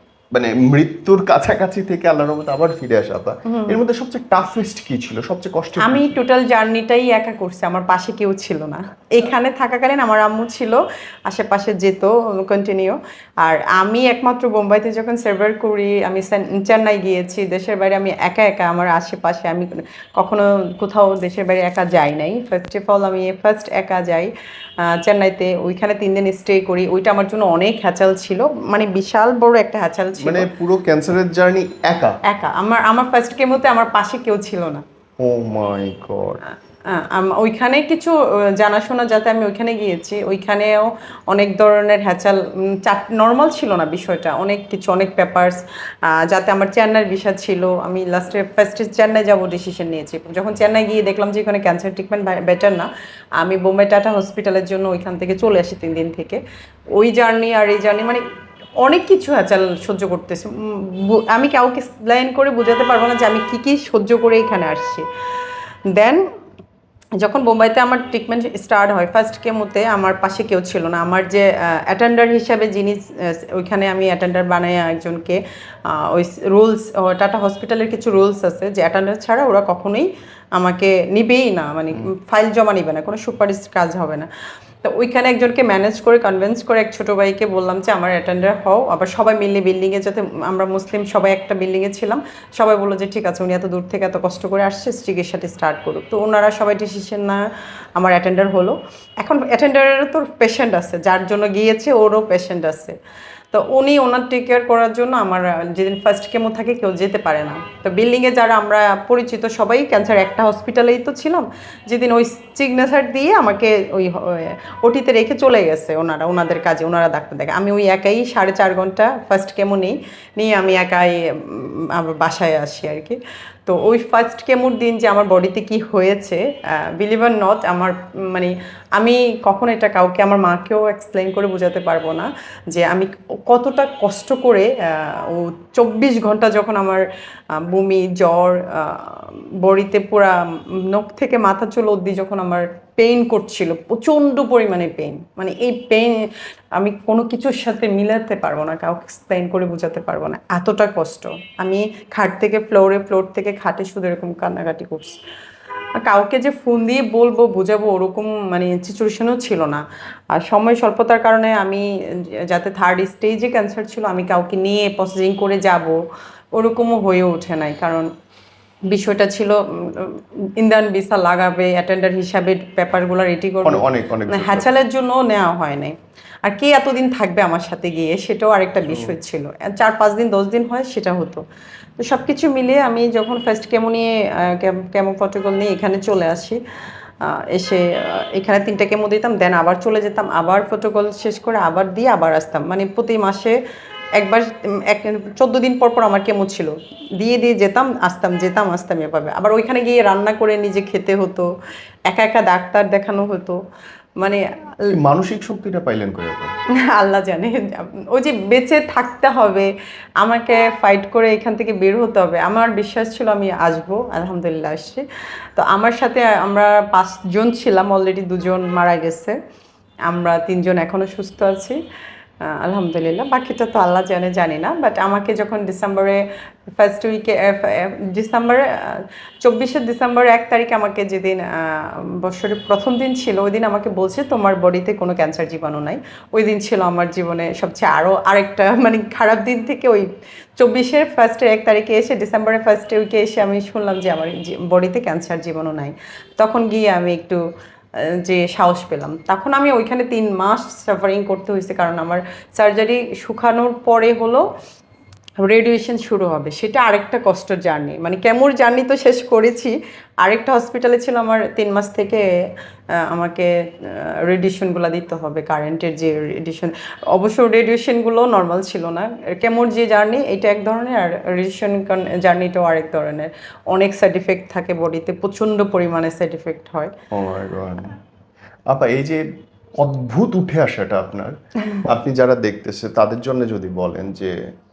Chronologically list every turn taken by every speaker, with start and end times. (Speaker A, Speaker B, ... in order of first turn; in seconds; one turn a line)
Speaker A: 0.3-6.2
Speaker B: 3.5-3.8
Speaker B: 5.8-30.5
Speaker A: 30.2-32.2
Speaker B: 32.2-34.8
Speaker A: 35.2-36.4
Speaker B: 36.9-56.4
Speaker B: 56.9-58.2
Speaker B: 58.8-65.1
Speaker B: 65.9-66.2
Speaker B: 67.2-84.3
Speaker B: 84.8-97.4
Speaker B: 98.0-103.0
Speaker B: 103.5-155.2
Speaker B: 156.0-166.0
Speaker B: 166.6-168.1
Speaker B: 168.9-181.4
Speaker A: 173.6-174.7
Speaker A: 178.9-179.2
Speaker B: 182.0-186.6
Speaker B: 187.2-193.6
Speaker B: 194.2-201.5
Speaker B: 202.1-203.6
Speaker B: 204.2-205.0
Speaker A: 204.9-206.5
Speaker B: 206.8-209.7
Speaker B: 210.2-215.0
Speaker B: 215.6-219.4
Speaker B: 220.1-221.8
Speaker B: 222.4-226.2
Speaker B: 226.8-247.4
Speaker B: 248.0-254.4
Speaker B: 255.4-262.2
Speaker B: 262.9-276.9
Speaker A: 277.1-277.9
Speaker A: 278.7-284.4